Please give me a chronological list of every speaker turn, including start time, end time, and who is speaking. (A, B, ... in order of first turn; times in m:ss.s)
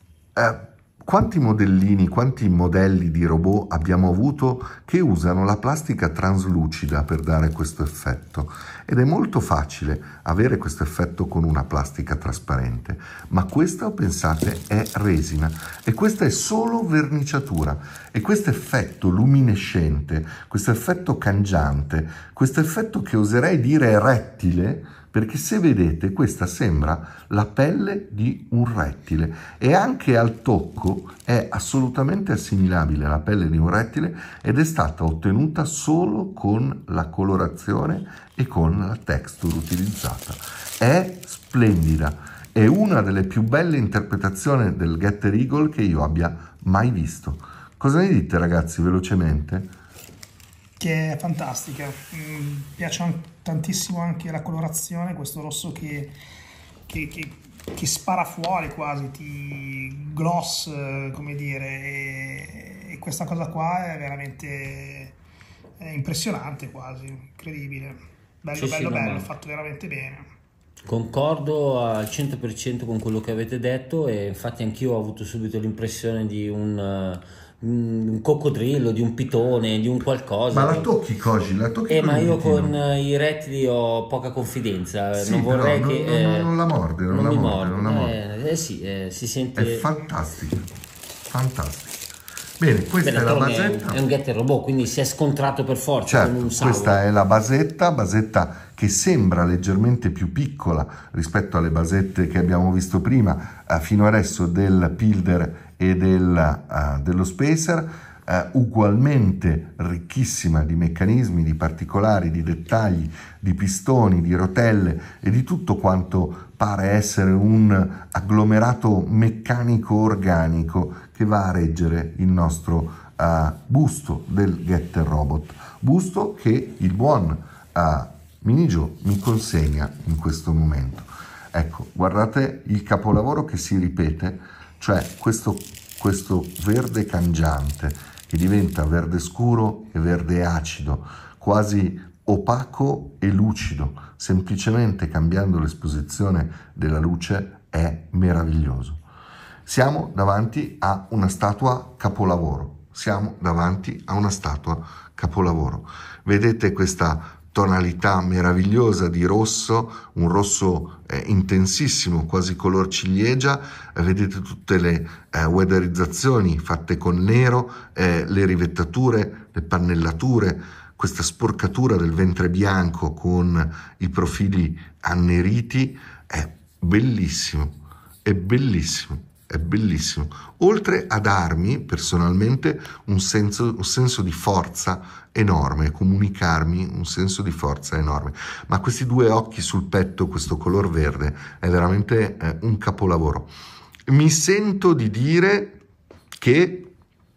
0:00.4-0:49.7 A
0:50.8-0:56.1 B
0:56.9-1:05.2 B
1:05.8-1:10.3 B
1:08.5-1:09.3 C
1:10.8-1:20.9 C
1:20.5-1:22.8 A
1:21.9-1:26.5 C
1:25.1-1:28.2 A
1:27.1-1:29.9 C
1:29.6-1:30.7 A
1:31.3-1:32.0 A
1:32.6-1:34.0 A
1:33.0-1:37.0 C
1:36.1-2:29.0 A
2:29.6-3:13.5 A
3:14.1-3:15.8 A
3:16.4-3:16.9 A